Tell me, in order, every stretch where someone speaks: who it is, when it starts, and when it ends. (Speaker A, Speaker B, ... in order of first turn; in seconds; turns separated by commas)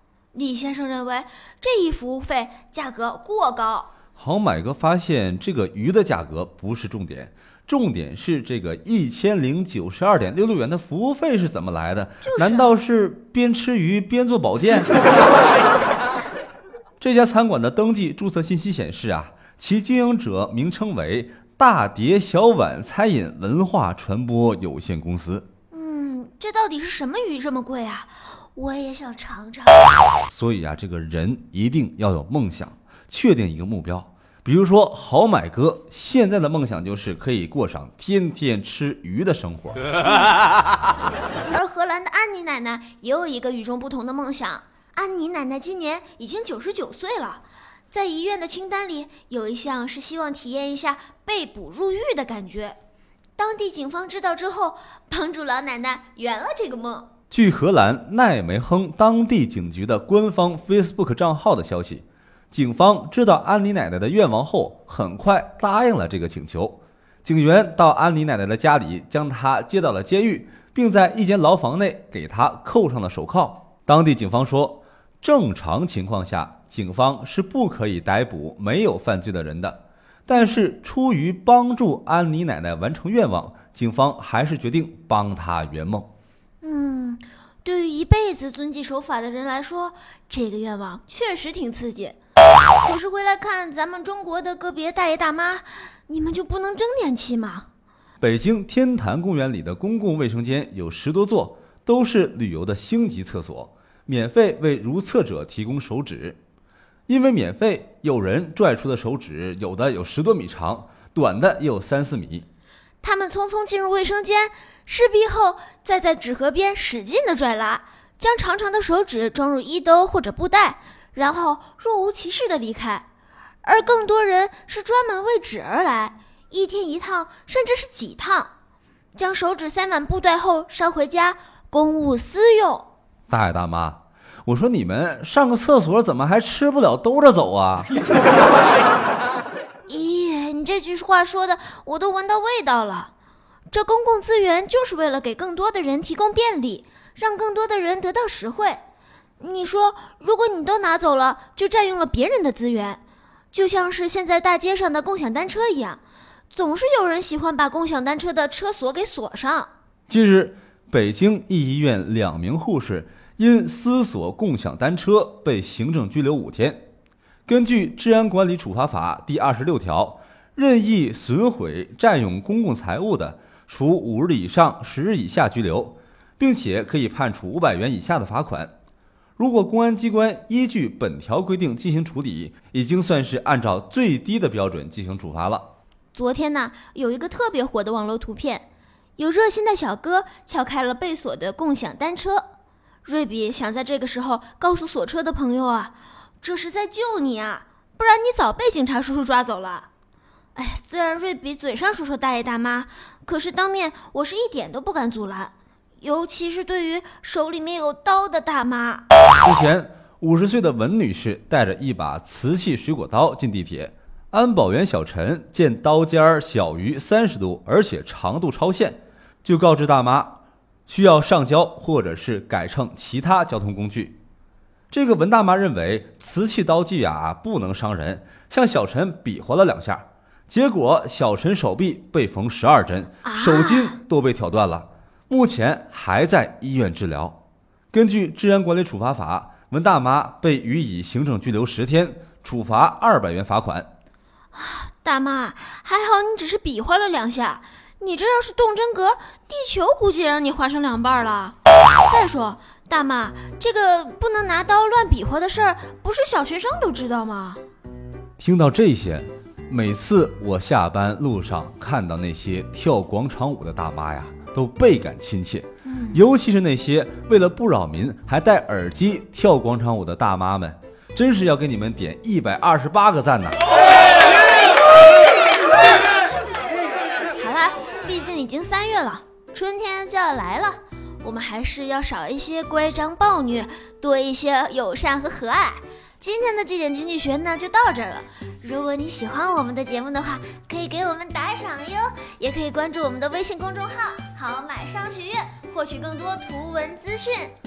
Speaker A: 0.3-3.9, Speaker B: 4.2-14.9, Speaker A: 12.2-12.7, Speaker B: 17.0-25.4, Speaker A: 25.7-30.0, Speaker B: 30.3-39.9, Speaker A: 40.0-40.4, Speaker A: 41.5-52.8, Speaker A: 53.4-57.1, Speaker B: 57.3-86.1, Speaker A: 86.6-92.2, Speaker A: 92.8-97.7, Speaker B: 98.2-106.4, Speaker B: 107.1-112.5, Speaker A: 113.0-123.1, Speaker A: 123.6-128.5, Speaker A: 129.1-132.9, Speaker B: 133.3-137.9, Speaker A: 139.9-143.1, Speaker A: 143.7-148.8, Speaker A: 149.4-153.0, Speaker A: 153.5-159.7, Speaker B: 160.1-166.9, Speaker B: 167.5-178.7, Speaker B: 179.4-185.7, Speaker A: 186.1-192.4, Speaker A: 193.0-199.9, Speaker A: 200.5-209.0, Speaker B: 209.4-224.2, Speaker B: 224.9-237.4, Speaker A: 233.2-234.0, Speaker B: 237.9-243.9, Speaker A: 244.5-257.6, Speaker B: 258.4-273.6, Speaker A: 265.8-266.2, Speaker A: 277.4-297.5